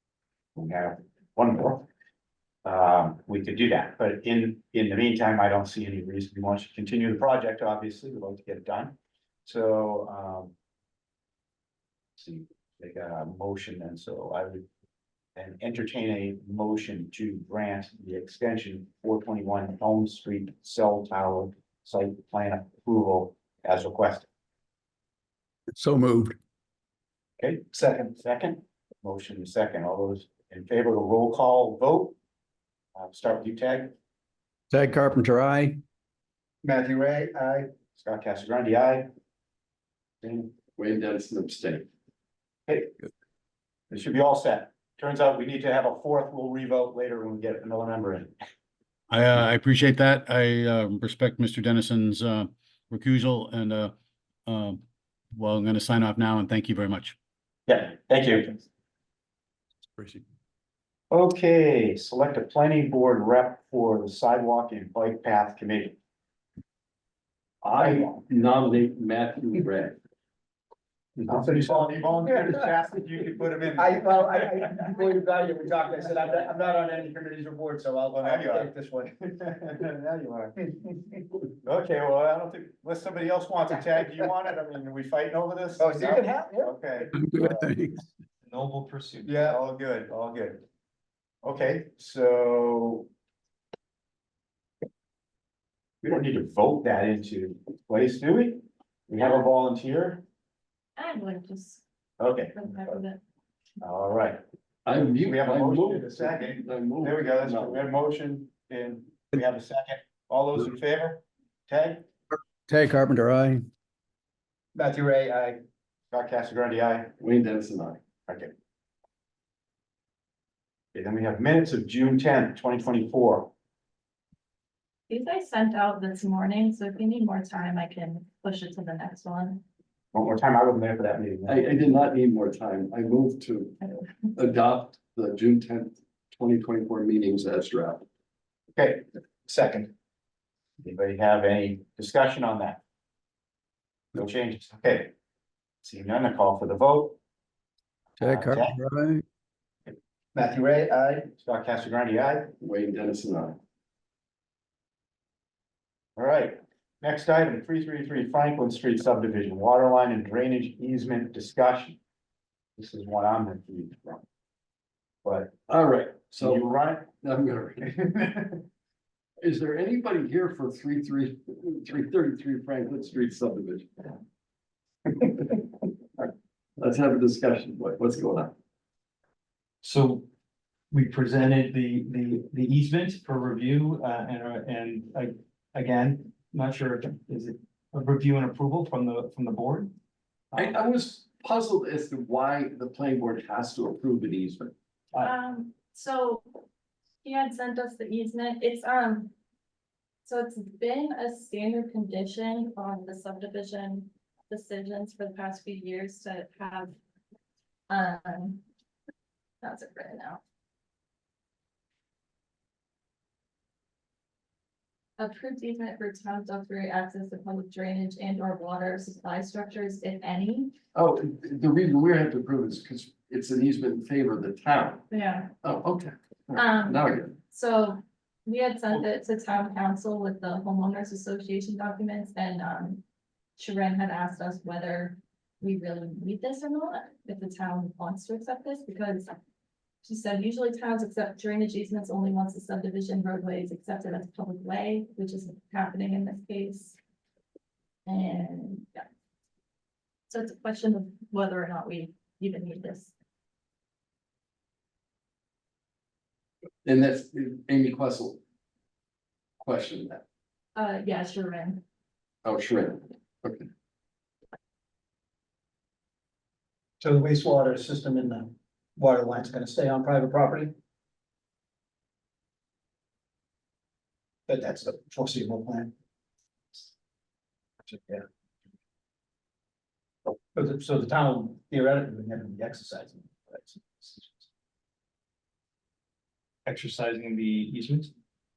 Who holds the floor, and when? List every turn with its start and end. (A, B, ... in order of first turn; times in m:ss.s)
0:00.6-0:01.9 A
0:02.6-0:10.5 A
0:12.2-0:14.7 A
0:15.4-0:24.3 A
0:25.8-0:26.4 B
0:27.4-0:32.2 A
0:27.7-0:28.1 C
0:33.0-0:33.9 A
0:34.7-0:35.8 B
0:36.6-0:37.7 C
0:37.9-0:39.1 A
0:40.2-0:40.5 A
0:40.8-0:41.9 D
0:43.9-0:48.4 A
0:49.1-0:53.9 E
0:54.5-0:54.8 E
0:55.3-0:57.2 E
0:57.7-0:58.6 A
1:00.0-1:00.2 B
1:01.1-1:06.0 A
1:07.6-1:08.1 A
1:07.7-1:10.0 D
1:11.3-1:14.0 A
1:11.3-1:12.5 C
1:13.8-1:19.1 C
1:18.2-1:18.7 A
1:19.3-1:20.6 A
1:20.6-1:21.0 C
1:21.6-1:27.6 A
1:25.8-1:27.1 C
1:27.2-1:28.0 B
1:28.4-1:29.4 F
1:29.3-1:29.6 C
1:29.4-1:30.6 A
1:31.4-1:33.1 A
1:36.0-1:40.2 A
1:41.0-1:41.8 G
1:42.2-1:42.6 A
1:42.5-1:43.2 G
1:43.8-1:44.4 A
1:44.9-1:47.9 D
1:44.9-1:52.1 A
1:52.7-1:53.7 B
1:54.8-1:55.6 C
1:56.1-1:57.1 A
1:57.2-1:58.0 D
2:00.9-2:03.5 A
2:05.1-2:09.6 G
2:10.1-2:11.9 A
2:11.5-2:13.8 D
2:14.4-2:18.0 D
2:18.8-2:19.1 A
2:19.5-2:19.9 C
2:20.8-2:22.8 A
2:24.2-2:25.1 A
2:25.8-2:27.2 A
2:28.2-2:28.8 A
2:28.2-2:29.2 B
2:30.4-2:31.3 C
2:31.4-2:32.5 A
2:32.6-2:33.6 D
2:36.2-2:42.0 A
2:42.8-2:44.2 A
2:45.2-2:45.6 A
2:45.7-2:46.7 D
2:46.4-2:47.1 A
2:47.2-2:48.0 D
2:47.9-2:48.6 A
2:49.4-2:54.2 D
2:55.2-2:58.5 D
2:59.8-3:00.3 F
3:00.9-3:09.9 F
3:10.5-3:10.8 F
3:10.6-3:14.7 D
3:15.2-3:16.5 G
3:17.2-3:19.3 G
3:20.3-3:27.0 G
3:27.9-3:28.6 G
3:29.6-3:30.4 G
3:35.2-3:40.7 G
3:41.0-3:45.1 D
3:45.1-3:45.5 G
3:45.6-3:47.4 D
3:46.6-3:53.0 G
3:53.6-3:59.3 G
4:00.0-4:07.0 G
4:08.1-4:09.1 G
4:10.3-4:13.1 G
4:16.8-4:18.4 D
4:19.6-4:20.2 D
4:20.8-4:21.8 G
4:22.4-4:23.7 D
4:27.0-4:30.7 C
4:34.5-4:35.9 C
4:37.9-4:38.2 C
4:40.5-4:44.4 C
4:46.7-4:48.1 F